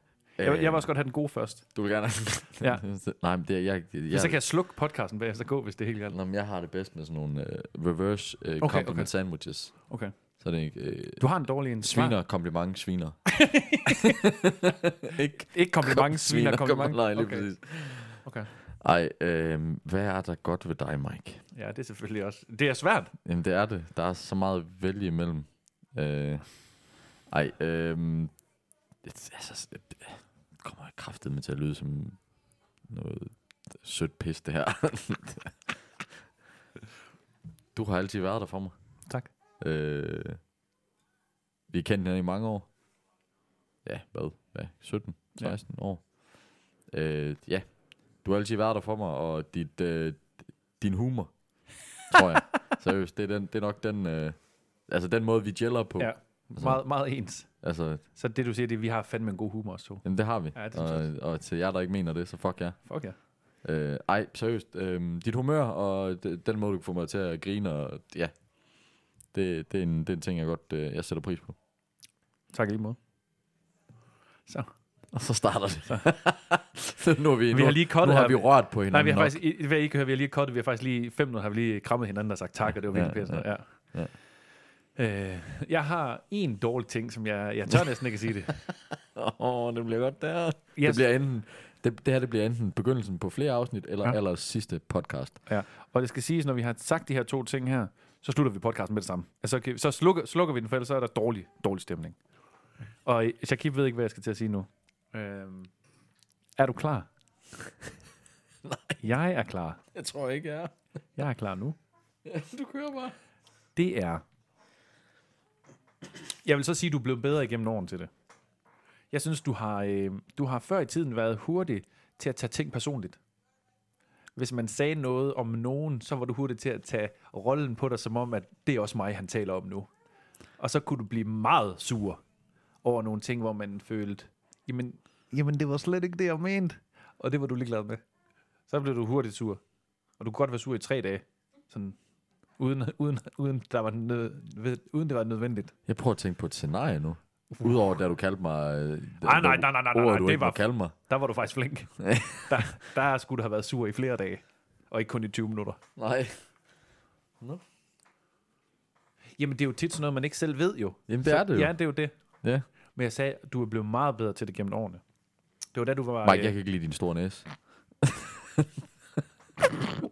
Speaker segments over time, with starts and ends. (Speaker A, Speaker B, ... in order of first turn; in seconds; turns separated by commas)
Speaker A: 0.2-1.7, Speaker B: 0.4-0.9, Speaker B: 1.7-4.4, Speaker A: 4.1-6.2, Speaker B: 6.1-11.3, Speaker A: 8.6-9.1, Speaker A: 9.7-10.1, Speaker A: 11.2-12.2, Speaker B: 11.8-18.2, Speaker A: 13.3-14.1, Speaker A: 15.5-17.5, Speaker A: 18.1-18.5, Speaker B: 18.8-21.4, Speaker A: 21.5-23.1, Speaker B: 23.2-28.3, Speaker B: 29.0-32.2, Speaker B: 32.9-35.6, Speaker B: 37.7-38.7, Speaker B: 39.6-40.4, Speaker B: 41.7-42.7, Speaker B: 43.8-56.8, Speaker A: 56.0-61.1, Speaker B: 57.6-58.0, Speaker B: 60.0-71.6, Speaker A: 62.9-63.1, Speaker A: 72.5-73.0, Speaker B: 75.1-79.4, Speaker A: 77.5-83.7, Speaker B: 82.7-84.1, Speaker A: 85.0-88.6, Speaker B: 89.1-95.4, Speaker A: 90.8-91.0, Speaker A: 95.5-102.2, Speaker A: 103.0-105.7, Speaker A: 106.6-107.1, Speaker B: 108.6-109.0, Speaker A: 109.0-109.8, Speaker B: 109.9-110.7, Speaker A: 111.2-111.8, Speaker B: 112.2-113.2, Speaker A: 113.8-114.2, Speaker A: 116.4-118.1, Speaker A: 119.1-123.2, Speaker A: 124.3-129.9, Speaker A: 130.6-132.2, Speaker A: 132.8-138.0, Speaker A: 138.7-139.6, Speaker A: 140.2-142.0, Speaker A: 142.6-145.7, Speaker B: 145.9-150.9, Speaker A: 149.2-155.8, Speaker B: 152.0-152.6, Speaker B: 155.9-156.4, Speaker A: 159.4-162.1, Speaker B: 161.1-161.8, Speaker A: 162.9-165.0, Speaker A: 165.7-166.5, Speaker B: 166.2-167.5, Speaker B: 168.0-168.7